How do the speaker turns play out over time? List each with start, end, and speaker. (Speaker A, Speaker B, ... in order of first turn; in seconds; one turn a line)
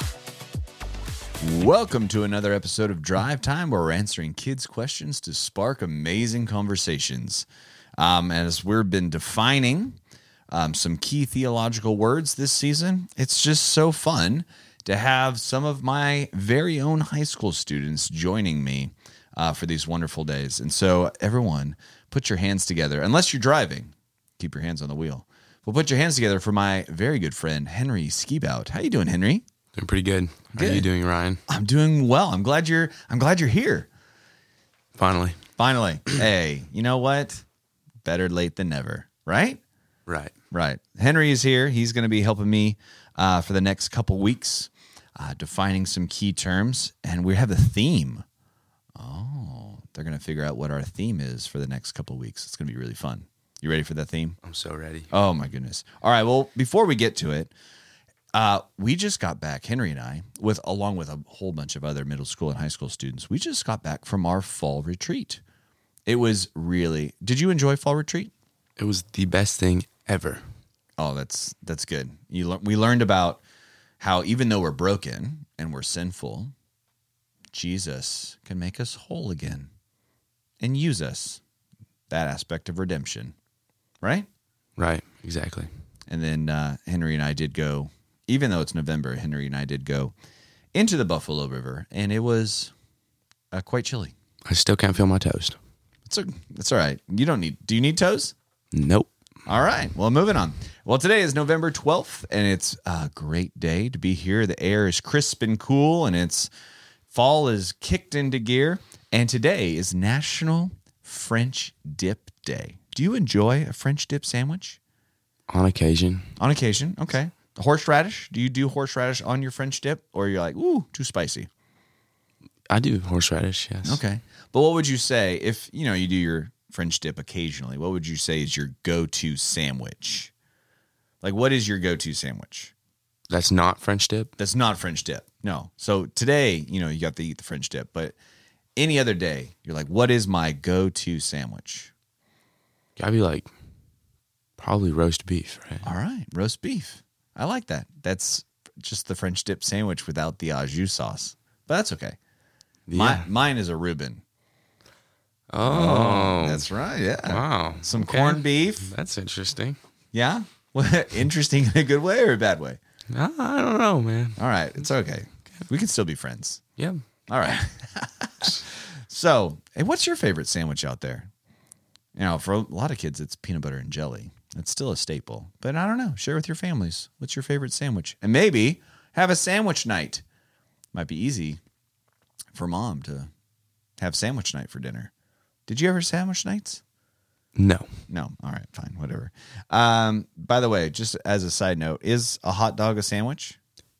Speaker A: 1.4-7.5
Speaker A: 8.0-10.0
Speaker A: 10.5-29.4
Speaker B: 29.8-31.4
Speaker A: 30.5-30.9
Speaker A: 31.5-33.9
Speaker B: 35.0-35.4
Speaker A: 35.6-37.4
Speaker A: 38.0-39.6
Speaker B: 40.1-40.3
Speaker A: 40.5-48.2
Speaker A: 49.0-54.4
Speaker B: 54.4-55.1
Speaker A: 55.1-57.5
Speaker A: 58.3-65.4
Speaker A: 66.0-68.3
Speaker B: 68.8-70.4
Speaker A: 71.0-73.4
Speaker A: 74.0-76.5
Speaker A: 77.5-79.7
Speaker A: 80.6-81.4
Speaker A: 82.1-83.3
Speaker A: 84.0-84.3
Speaker B: 84.8-85.7
Speaker A: 86.1-90.1
Speaker A: 90.7-92.7
Speaker A: 93.5-94.1
Speaker B: 94.5-95.6
Speaker A: 96.0-98.3
Speaker B: 98.7-99.1
Speaker A: 99.5-106.5
Speaker A: 107.1-114.8
Speaker B: 115.5-116.3
Speaker A: 116.4-121.5
Speaker B: 122.7-124.0
Speaker A: 123.8-130.3
Speaker A: 131.2-132.7
Speaker B: 133.3-134.3
Speaker A: 134.4-138.2
Speaker A: 138.8-141.9
Speaker B: 143.0-143.5
Speaker B: 144.6-145.8
Speaker A: 145.8-152.2
Speaker B: 152.9-153.3
Speaker A: 152.9-154.2
Speaker B: 155.5-156.7
Speaker A: 155.6-158.9
Speaker B: 157.2-159.8
Speaker A: 160.1-162.8
Speaker B: 163.1-164.4
Speaker A: 164.4-166.6
Speaker B: 166.8-167.0
Speaker A: 167.3-171.3
Speaker A: 172.1-180.2
Speaker A: 180.9-181.6
Speaker A: 182.5-183.3
Speaker A: 184.0-185.1
Speaker A: 185.7-186.8
Speaker B: 187.6-188.0
Speaker A: 188.1-193.6